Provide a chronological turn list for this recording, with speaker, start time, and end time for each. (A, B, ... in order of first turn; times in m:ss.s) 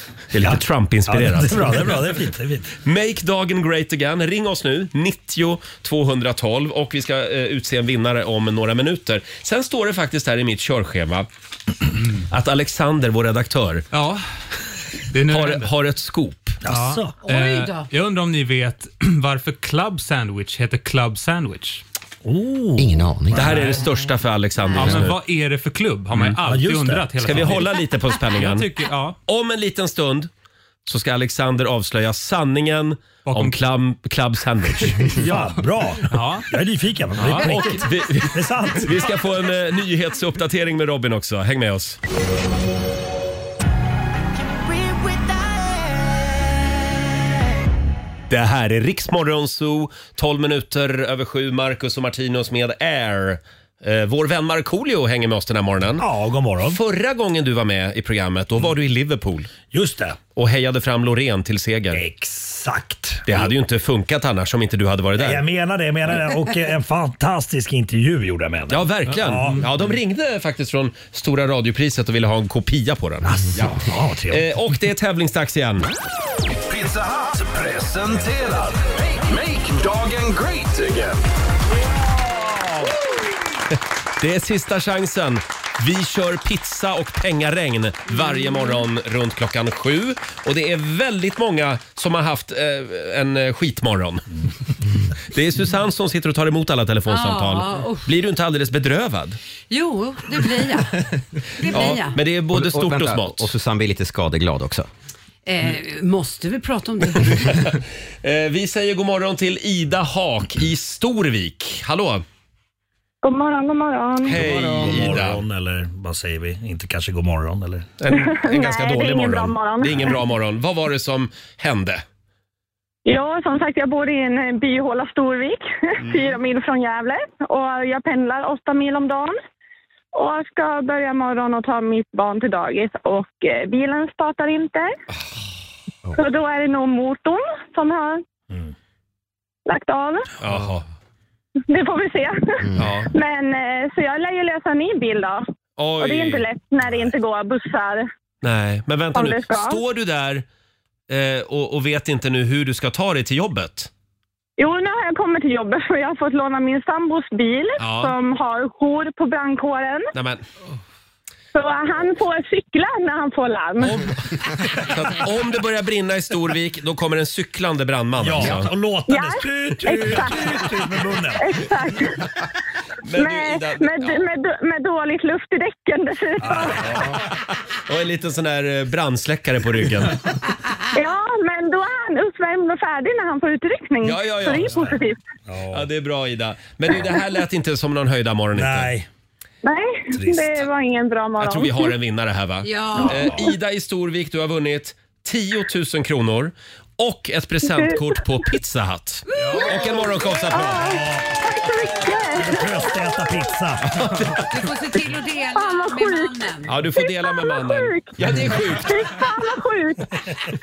0:00.3-0:02.0 A
0:00.4-0:02.7 B
0:02.8-0:11.3 A
0:12.3-0:13.8 A
0:13.9-0:14.2 C
0:15.1-0:15.7 C
0:15.3-0:16.6 A
0:16.6-0:17.1 B
0:16.6-0:21.8 C
0:17.2-0:17.9 D
0:22.2-0:23.6 B
0:22.8-0:23.6 E
0:23.3-0:25.2 A
0:23.4-0:23.9 C
0:24.7-0:29.2 C
0:26.4-0:27.6 B
0:27.2-0:28.7 A
0:29.3-0:30.3 A
0:30.8-0:35.2 A
0:33.2-0:33.6 C
0:35.0-0:39.1 B
0:36.1-0:36.5 C
0:37.2-0:37.5 C
0:37.2-0:42.0 A
0:48.3-0:56.0 A
0:56.0-0:56.8 B
0:56.6-0:59.5 A
0:59.7-1:00.2 B
1:00.4-1:02.0 A
1:01.9-1:03.5 B
1:03.3-1:05.4 A
1:05.2-1:09.6 B
1:08.7-1:15.9 A
1:13.2-1:14.4 B
1:16.5-1:21.2 F
1:22.6-1:22.9 A
1:23.7-1:34.2 A
1:28.1-1:28.8 D
1:35.3-1:39.4 A
1:37.1-1:38.1 D
1:39.7-1:42.2 D
1:41.7-1:43.5 A
1:42.5-1:44.9 E
1:45.4-1:47.5 D
1:47.4-1:52.2 A
1:53.2-1:54.4 G
1:54.3-1:55.4 A
1:54.3-1:57.9 B
1:54.3-1:55.2 E
1:58.0-2:02.0 A
1:58.1-2:00.2 G
2:03.0-2:09.4 G
2:10.1-2:14.9 G
2:16.2-2:18.2 G
2:19.6-2:20.3 G
2:20.4-2:20.8 A
2:21.7-2:25.4 G
2:22.6-2:22.9 E
2:22.8-2:23.1 A
2:25.8-2:26.4 A
2:26.0-2:28.1 G
2:28.4-2:30.4 A
2:29.1-2:29.8 G
2:31.1-2:33.9 A
2:34.6-2:40.1 G
2:37.8-2:38.1 A
2:40.1-2:40.4 A
2:41.5-2:44.1 G
2:43.8-2:48.7 A
2:48.2-2:51.6 B
2:49.1-2:50.5 G
2:51.4-2:52.2 G
2:53.0-2:54.2 A
2:53.1-2:57.0 G
2:56.4-2:57.2 B
2:57.9-3:00.2 A
3:00.9-3:05.2 G
3:04.0-3:04.8 A
3:04.7-3:05.8 B
3:05.7-3:08.9 A
3:08.5-3:09.1 B
3:09.6-3:11.9 G
3:10.1-3:10.6 B
3:11.4-3:20.8 A
3:12.6-3:13.2 D
3:13.0-3:13.5 G
3:17.6-3:18.2 G
3:19.3-3:19.7 D
3:20.5-3:23.4 G
3:20.7-3:21.4 B
3:22.4-3:24.4 B
3:24.4-3:26.8 D
3:25.5-3:26.3 G
3:26.6-3:29.0 A
3:26.9-3:30.2 G